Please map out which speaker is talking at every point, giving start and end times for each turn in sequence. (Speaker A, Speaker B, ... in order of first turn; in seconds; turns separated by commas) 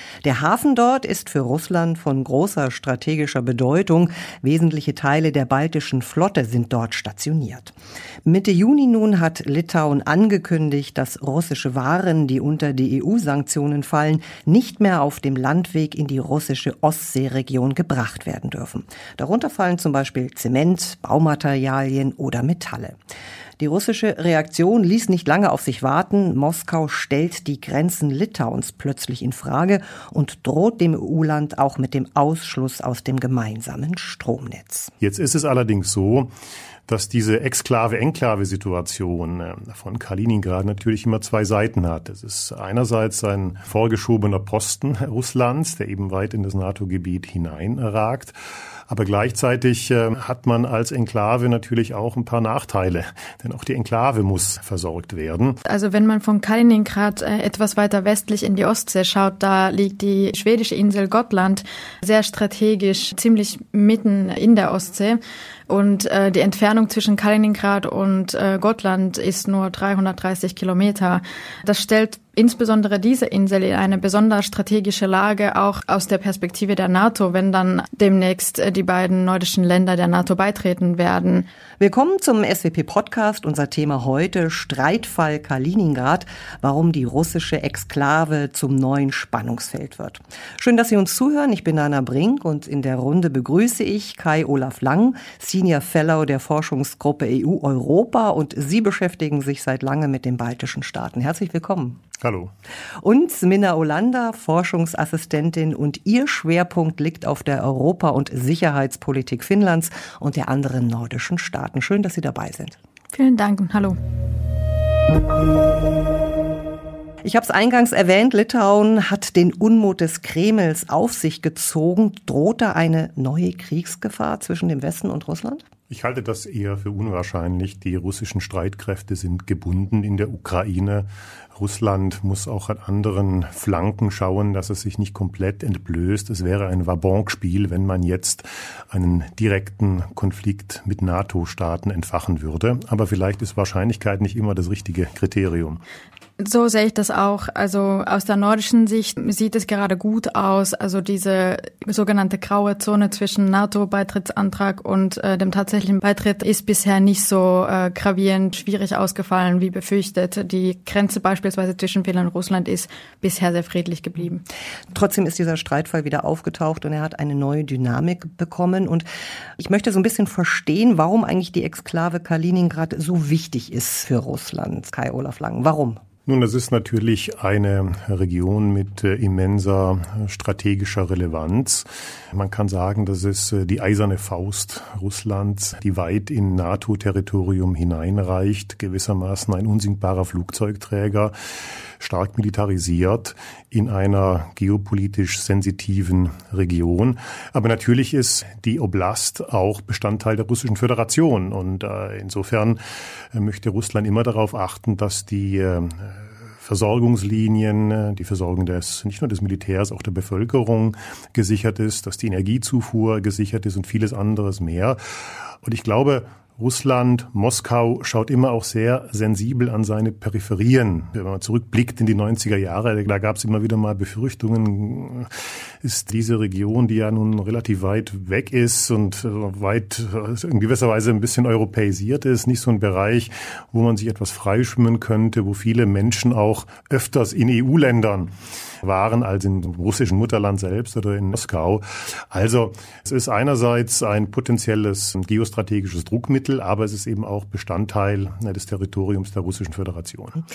Speaker A: 0.2-7.7, Speaker A: 8.2-23.0, Speaker A: 23.6-34.9, Speaker B: 35.0-36.3, Speaker B: 36.9-48.3, Speaker B: 48.9-55.6, Speaker C: 55.6-81.5, Speaker A: 81.8-102.0, Speaker B: 102.2-102.5, Speaker A: 103.0-112.8, Speaker C: 113.1-114.0, Speaker A: 117.2-125.6, Speaker B: 125.9-145.8, Speaker C: 146.4-164.4, Speaker A: 164.9-169.1, Speaker A: 169.6-176.0, Speaker B: 176.2-191.3, Speaker B: 192.0-202.8, Speaker B: 203.3-215.0, Speaker B: 215.6-225.3, Speaker B: 225.8-238.3, Speaker B: 238.8-250.4